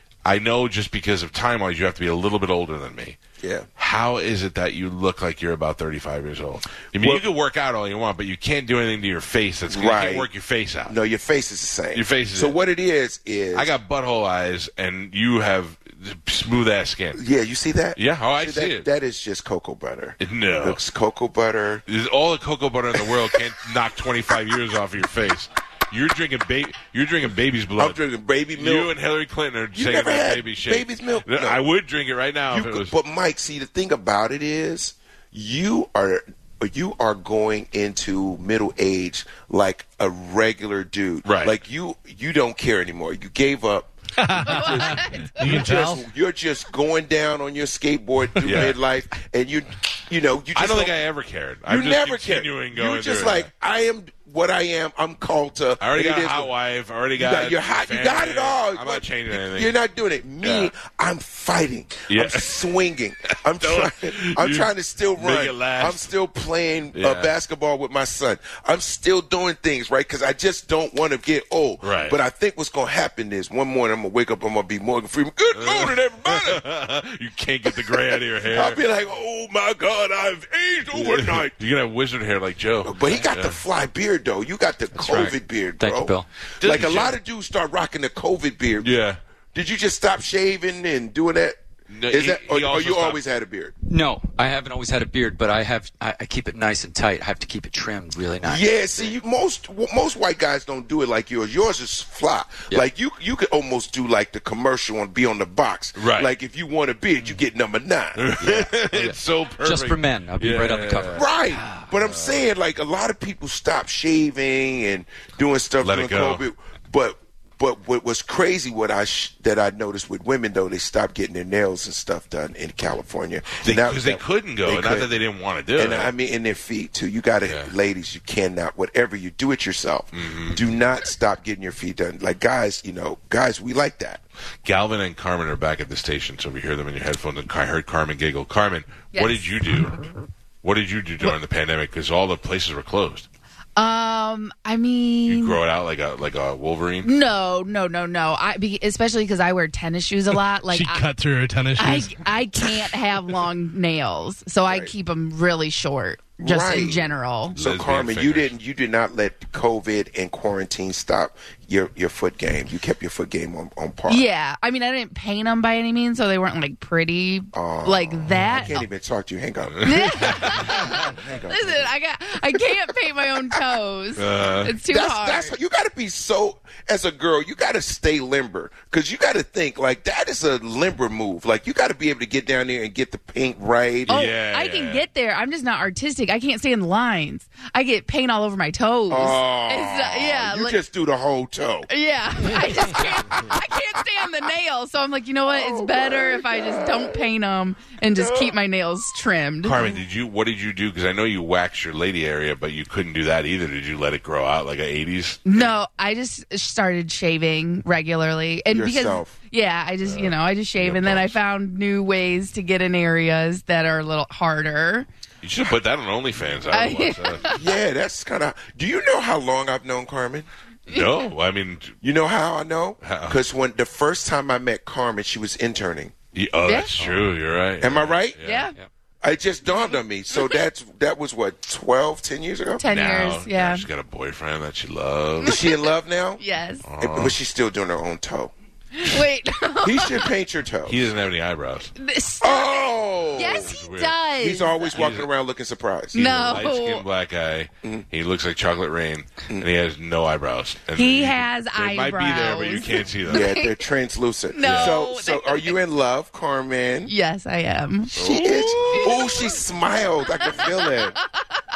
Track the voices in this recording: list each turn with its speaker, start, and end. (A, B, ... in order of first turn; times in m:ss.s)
0:00.2-0:03.2 A
0:03.4-0:03.7 B
0:03.8-0:10.9 A
0:07.0-0:07.2 B
0:09.7-0:10.3 B
0:10.8-0:13.7 B
0:11.9-0:12.6 A
0:13.5-0:17.2 A
0:17.1-0:21.8 B
0:18.0-0:18.9 A
0:20.2-0:20.8 A
0:21.9-0:28.0 A
0:22.9-0:23.4 B
0:27.8-0:28.9 B
0:28.6-0:32.9 A
0:29.7-0:31.6 B
0:32.5-0:51.0 B
0:41.2-0:41.6 A
0:44.2-0:46.0 C
0:44.3-0:45.7 D
0:48.4-0:48.8 A
0:50.5-0:53.5 A
0:51.7-0:56.5 B
0:55.8-0:59.7 A
0:57.2-1:16.6 B
1:00.4-1:00.7 A
1:02.1-1:02.7 A
1:03.3-1:06.1 A
1:06.9-1:07.3 A
1:11.8-1:12.2 A
1:15.5-1:18.8 A
1:17.6-1:21.6 B
1:20.9-1:23.6 A
1:22.8-1:28.9 B
1:24.9-1:26.3 E
1:26.6-1:27.2 A
1:28.8-1:29.2 A
1:29.5-1:33.7 B
1:31.9-1:33.2 A
1:33.9-1:38.7 E
1:38.4-1:48.5 B
1:46.0-1:46.3 A
1:48.2-1:51.2 A
1:48.5-1:51.9 E
1:51.1-2:05.1 B
1:52.0-1:52.4 A
1:55.8-1:56.4 A
2:03.6-2:06.1 A
2:05.8-2:14.2 B
2:07.4-2:07.7 A
2:10.1-2:10.6 A
2:14.6-2:20.0 A
2:19.1-2:19.4 D
2:20.6-2:23.3 A
2:23.8-2:25.6 D
2:25.3-2:27.1 A
2:27.0-2:31.1 D
2:30.7-2:32.9 C
2:31.8-2:37.6 D
2:34.6-2:34.9 B
2:36.4-2:44.2 B
2:37.5-2:38.5 A
2:44.1-2:48.8 D
2:47.5-2:51.9 B
2:49.7-2:50.6 A
2:49.8-2:55.5 D
2:52.5-2:52.8 B
2:54.2-2:54.7 A
2:54.8-3:04.2 B
3:04.1-3:05.0 A
3:04.1-3:10.8 D
3:09.1-3:11.9 B
3:11.9-3:19.8 D
3:12.4-3:13.6 B
3:15.5-3:17.2 B
3:18.1-3:18.5 B
3:19.6-3:25.4 A
3:25.4-3:35.1 D
3:28.7-3:29.3 B
3:30.0-3:31.4 A
3:35.4-3:37.4 A
3:36.7-3:37.6 D
3:37.5-3:40.5 B
3:40.9-3:42.0 A
3:42.0-3:46.1 B
3:43.0-3:43.4 A
3:46.3-3:48.7 A
3:46.6-3:46.9 D
3:47.0-3:47.3 E
3:47.8-3:48.4 B
3:48.4-3:48.7 D
3:49.2-3:52.8 B
3:52.8-3:53.8 D
3:52.9-3:55.6 A
3:55.4-3:56.4 B
3:55.4-3:55.8 D
3:56.4-3:56.8 D
3:56.8-3:57.4 A
3:57.0-3:58.5 B
3:59.0-4:00.3 D
3:59.8-4:01.1 B
4:00.9-4:01.9 A
4:02.0-4:05.0 D
4:02.4-4:03.8 B
4:03.4-4:04.2 A
4:04.4-4:06.5 B
4:04.9-4:05.3 A
4:06.1-4:07.0 D
4:06.2-4:13.5 A
4:10.9-4:13.7 D
4:13.2-4:17.1 B
4:14.5-4:15.8 D
4:14.6-4:15.0 A
4:17.0-4:19.6 D
4:18.1-4:21.2 B
4:18.1-4:19.1 A
4:20.4-4:21.0 D